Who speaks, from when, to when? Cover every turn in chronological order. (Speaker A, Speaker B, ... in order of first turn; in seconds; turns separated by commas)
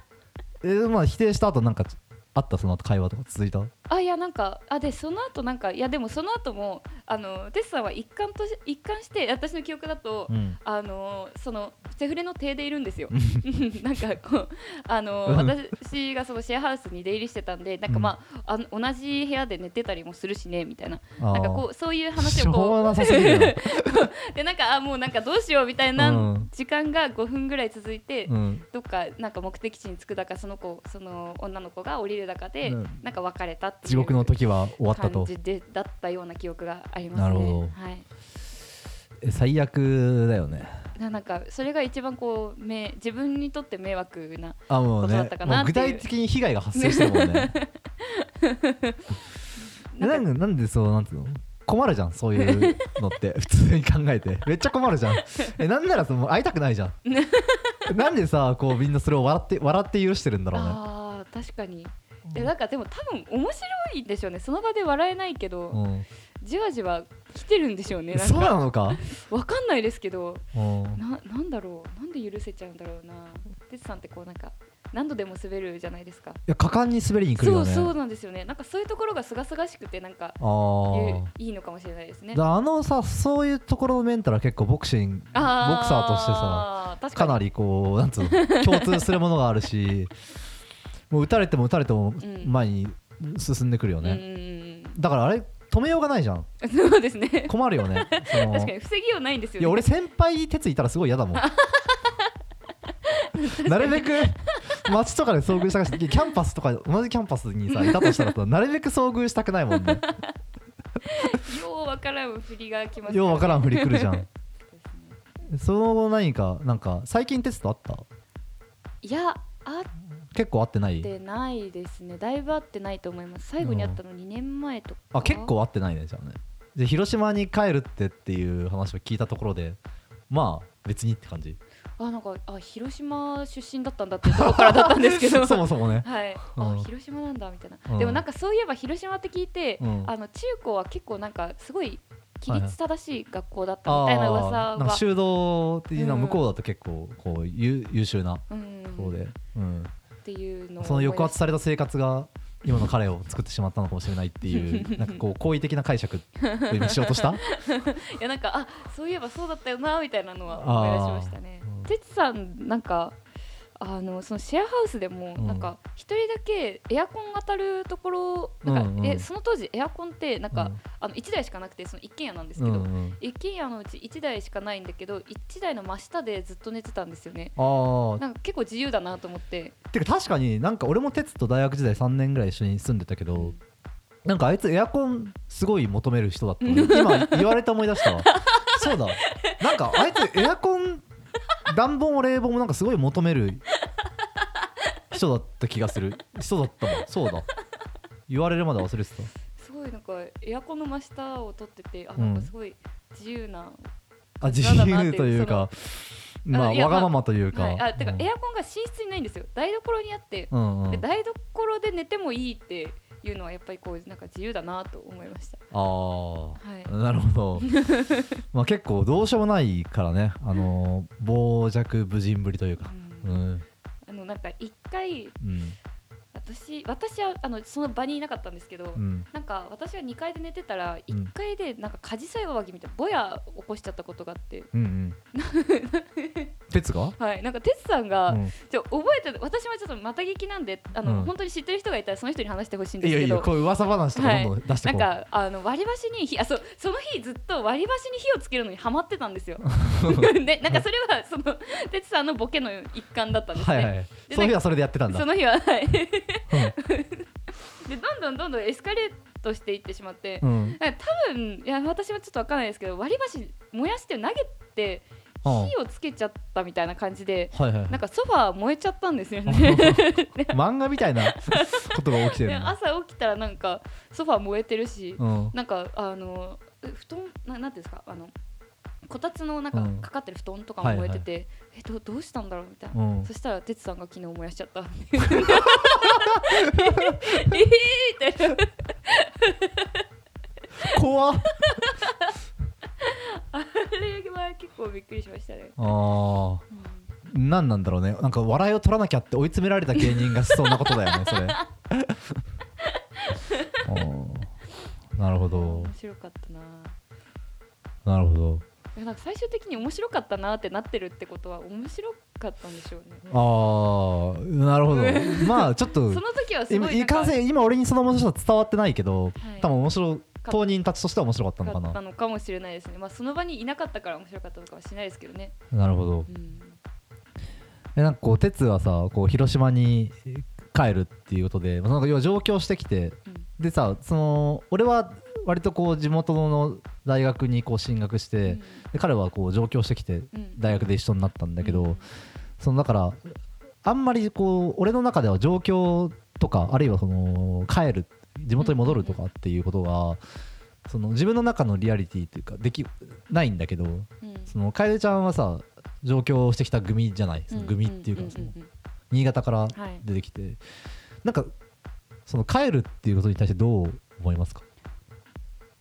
Speaker A: 0.6-3.7, Speaker B: 3.9-34.4, Speaker A: 10.3-10.6, Speaker A: 13.1-13.4, Speaker A: 15.3-15.6, Speaker A: 17.9-18.1, Speaker A: 21.2-21.6, Speaker A: 22.2-23.9, Speaker A: 26.0-26.5, Speaker A: 28.3-28.6, Speaker A: 32.6-33.0, Speaker A: 33.9-35.3, Speaker B: 34.9-38.1, Speaker A: 37.1-37.8, Speaker A: 39.2-40.7, Speaker B: 41.0-46.1, Speaker A: 44.7-47.5, Speaker B: 46.7-49.0, Speaker B: 49.9-50.2, Speaker A: 50.0-57.0, Speaker B: 52.4-52.9, Speaker B: 55.1-55.5, Speaker B: 57.0-57.8, Speaker A: 57.9-60.8, Speaker B: 60.5-65.8, Speaker A: 65.7-66.1, Speaker B: 66.4-76.4, Speaker A: 68.1-69.0, Speaker A: 70.5-71.0, Speaker A: 76.5-77.9, Speaker B: 77.4-82.4, Speaker A: 80.4-81.3, Speaker A: 82.3-90.1, Speaker B: 85.3-87.4, Speaker B: 88.3-89.1, Speaker A: 91.1-94.2, Speaker B: 92.2-92.5, Speaker B: 94.0-95.0, Speaker A: 95.0-96.5, Speaker B: 96.6-99.8, Speaker A: 97.5-98.7, Speaker A: 99.6-101.4, Speaker B: 101.3-102.3, Speaker B: 103.1-104.8, Speaker A: 103.6-110.0, Speaker B: 107.7-108.3, Speaker B: 109.8-110.3, Speaker B: 111.0-115.2, Speaker A: 113.1-114.3, Speaker A: 115.5-118.0, Speaker B: 119.0-119.9, Speaker A: 120.3-121.1, Speaker B: 121.0-125.5, Speaker A: 123.6-124.0, Speaker A: 125.1-131.6, Speaker B: 132.0-145.0, Speaker A: 134.3-136.9, Speaker A: 137.9-138.2, Speaker A: 139.8-140.1, Speaker A: 142.5-142.7, Speaker A: 143.9-149.9, Speaker B: 145.9-146.5, Speaker B: 148.5-149.2, Speaker B: 150.2-151.4, Speaker A: 150.8-157.4, Speaker B: 154.4-155.2, Speaker B: 156.4-163.2, Speaker A: 160.5-161.9, Speaker B: 163.8-177.6, Speaker A: 165.4-165.7, Speaker A: 168.6-169.3, Speaker A: 170.5-170.8, Speaker A: 172.6-173.2, Speaker A: 177.6-178.2, Speaker B: 178.2-179.8, Speaker A: 179.9-183.5, Speaker A: 184.2-191.1, Speaker B: 186.6-190.2, Speaker A: 191.7-193.6, Speaker A: 195.1-197.5, Speaker A: 198.3-199.3, Speaker B: 199.6-203.9, Speaker A: 202.2-202.5, Speaker B: 204.4-205.7, Speaker A: 204.4-208.3, Speaker B: 206.5-215.6, Speaker A: 210.5-211.0, Speaker A: 215.7-217.7, Speaker B: 216.6-216.9, Speaker B: 217.6-218.3, Speaker A: 218.5-223.7, Speaker B: 222.8-223.4, Speaker B: 224.1-225.3, Speaker A: 225.4-225.8, Speaker B: 226.3-234.7, Speaker A: 228.9-229.3, Speaker A: 234.7-235.2, Speaker B: 235.3-236.5, Speaker A: 236.7-237.2, Speaker B: 237.2-243.5, Speaker A: 238.3-238.5, Speaker A: 241.0-241.3, Speaker A: 243.0-245.1, Speaker B: 244.2-270.6, Speaker A: 249.8-250.8, Speaker A: 253.5-255.3, Speaker A: 260.4-260.8, Speaker A: 265.4-265.7, Speaker A: 267.5-268.0, Speaker A: 269.5-272.8, Speaker B: 271.2-278.3, Speaker A: 275.2-275.5, Speaker B: 279.1-290.0, Speaker A: 279.7-280.1, Speaker A: 280.8-281.2, Speaker A: 282.9-283.3, Speaker A: 285.4-287.6, Speaker A: 290.9-291.6, Speaker B: 291.5-292.3, Speaker B: 293.0-295.8, Speaker A: 295.8-296.6, Speaker B: 296.7-297.1, Speaker A: 297.3-302.2, Speaker B: 299.9-301.7, Speaker B: 302.8-303.8, Speaker A: 303.9-304.5, Speaker A: 305.2-305.9, Speaker B: 305.3-307.0, Speaker A: 308.1-308.6, Speaker B: 308.9-313.2, Speaker A: 313.3-322.0, Speaker B: 314.9-317.4, Speaker B: 319.4-319.7, Speaker B: 321.6-325.6, Speaker A: 325.7-326.3, Speaker B: 326.3-326.8, Speaker A: 328.0-342.0, Speaker B: 338.4-338.8, Speaker B: 340.3-340.9, Speaker B: 341.6-342.1, Speaker A: 342.6-343.2, Speaker A: 343.8-350.2, Speaker B: 348.6-349.2, Speaker A: 350.9-358.5, Speaker B: 354.2-354.5, Speaker B: 357.5-358.7, Speaker A: 359.1-360.6, Speaker B: 359.7-360.1, Speaker A: 361.2-361.5, Speaker A: 362.3-364.6